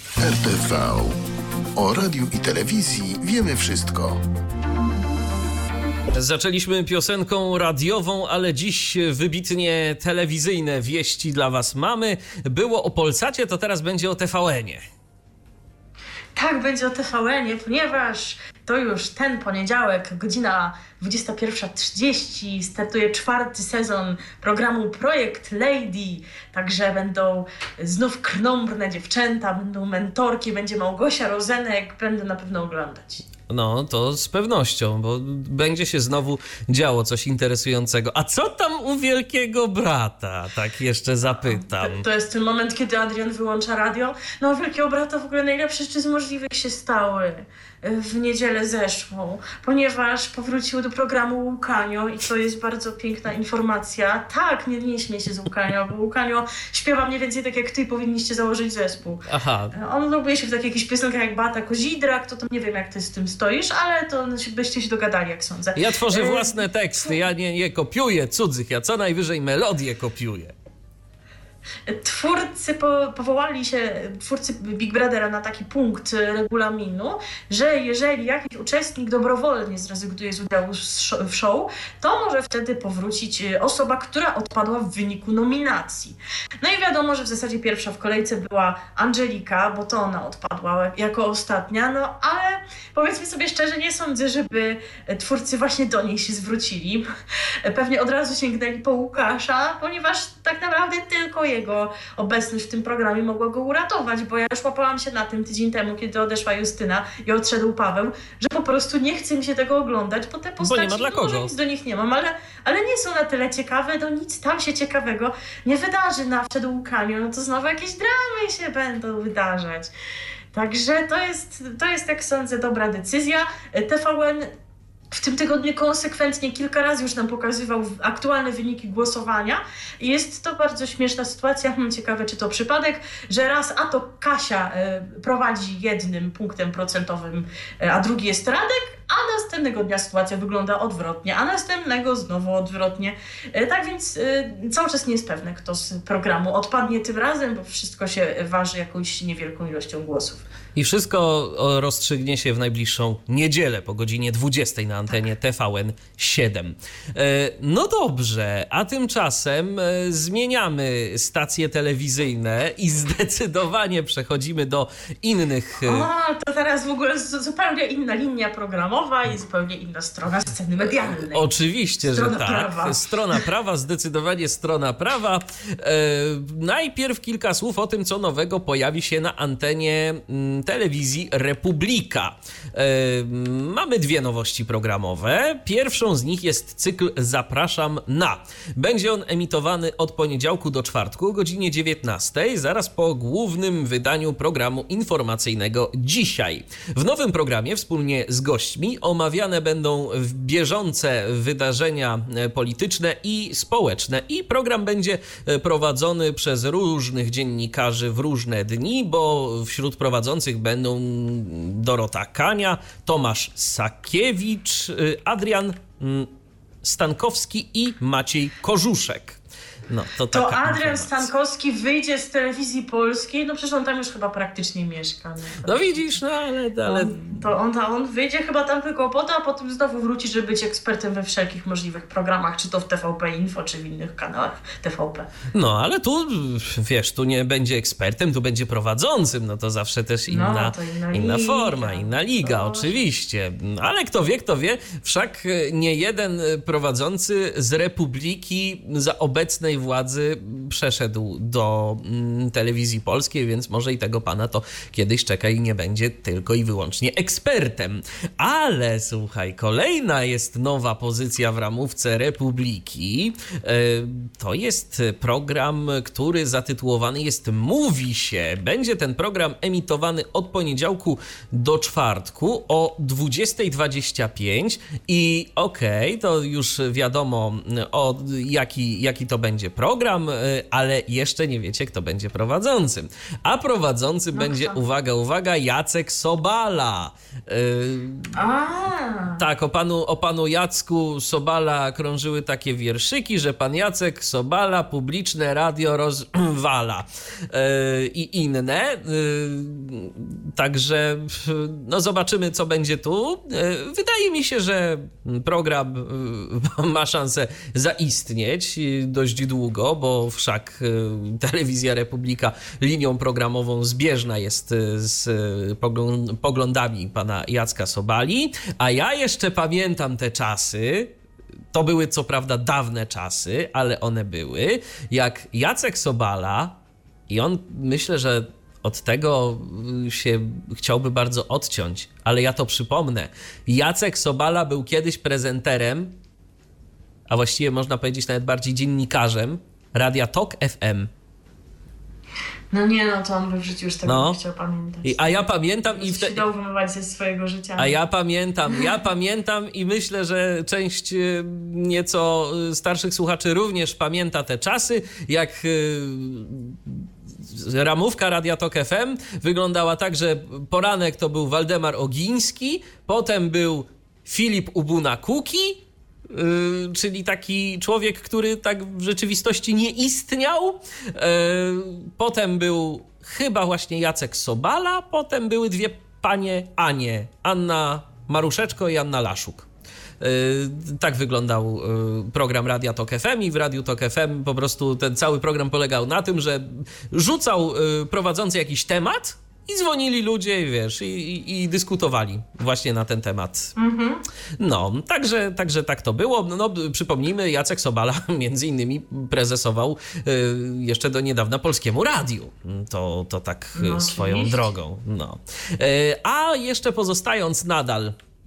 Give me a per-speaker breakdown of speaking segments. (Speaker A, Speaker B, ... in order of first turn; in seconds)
Speaker A: 0.2-1.2, 1.8-4.2
Speaker B: 6.1-14.8, 33.5-42.0, 59.3-59.7, 65.8-70.5, 110.6-111.5, 150.8-166.1, 171.1-216.3, 216.8-219.4, 219.9-221.3, 225.6-227.4, 235.5-288.3, 289.4-321.1, 321.7-326.8, 327.3-336.1, 337.3-341.1, 344.1-344.4, 345.0-346.4, 347.8-379.7, 380.2-393.8, 394.6-408.1
Speaker C: 16.4-33.2, 41.5-67.1, 71.9-97.0, 97.6-119.9, 120.5-124.5, 125.1-150.4, 165.8-171.5, 172.1-173.4, 220.3-226.2, 226.8-235.3, 240.3-243.0, 284.3-284.8, 288.3-289.4, 342.7-348.0, 393.8-394.2, 403.8-404.8